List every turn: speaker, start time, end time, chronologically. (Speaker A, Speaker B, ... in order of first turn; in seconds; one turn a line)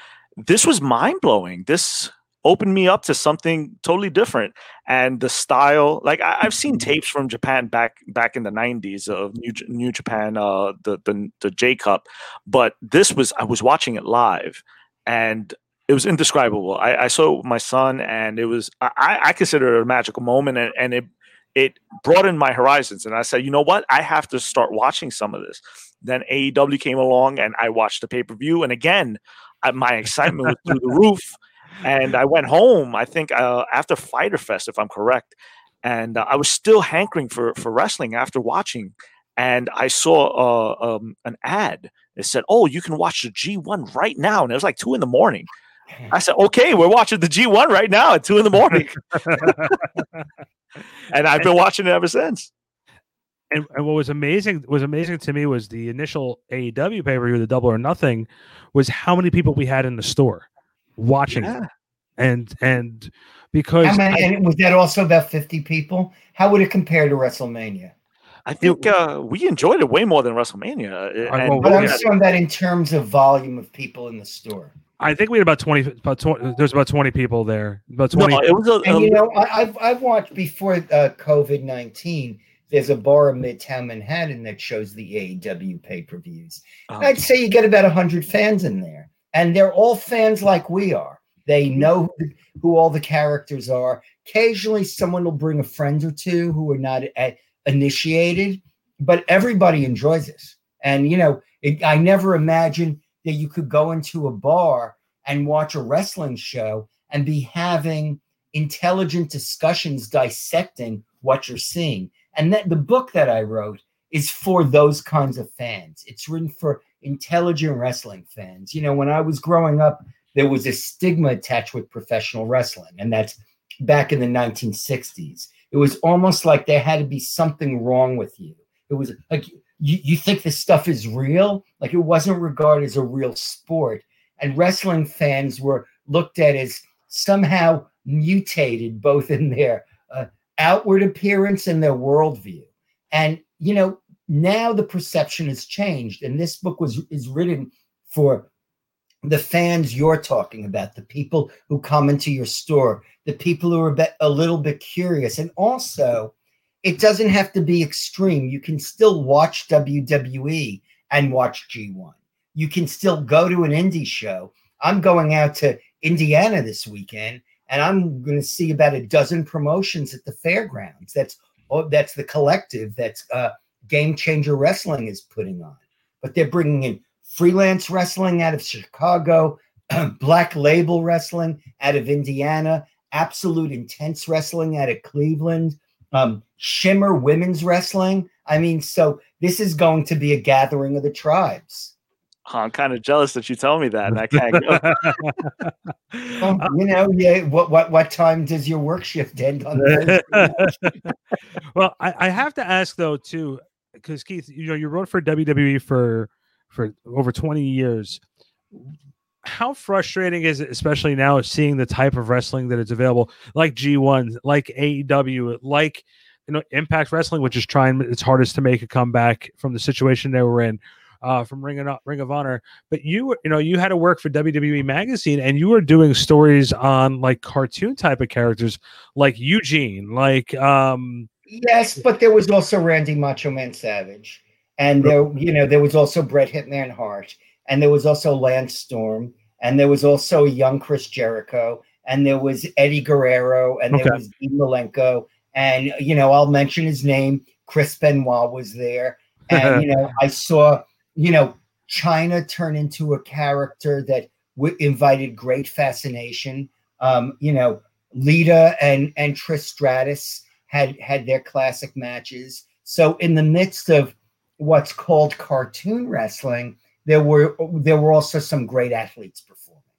Speaker A: 0.4-45.5
Speaker A: 46.1-49.8
Speaker B: 48.7-49.8
Speaker A: 51.1-52.5
Speaker B: 53.5-60.5
Speaker B: 61.0-61.5
Speaker A: 61.3-61.7
Speaker B: 62.2-64.3
Speaker C: 63.8-67.9
Speaker A: 68.5-72.1
Speaker B: 68.6-68.9
Speaker B: 71.3-72.0
Speaker C: 71.6-74.7
Speaker B: 75.0-78.5
Speaker A: 78.1-79.2
Speaker C: 78.8-148.5
Speaker A: 86.9-87.2
Speaker C: 149.2-191.9
Speaker A: 192.5-195.2
Speaker B: 194.3-196.7
Speaker C: 196.4-200.9
Speaker B: 199.8-201.1
Speaker B: 201.8-208.2
Speaker B: 209.4-231.3
Speaker C: 231.5-269.8
Speaker B: 243.9-244.2
Speaker B: 249.5-249.8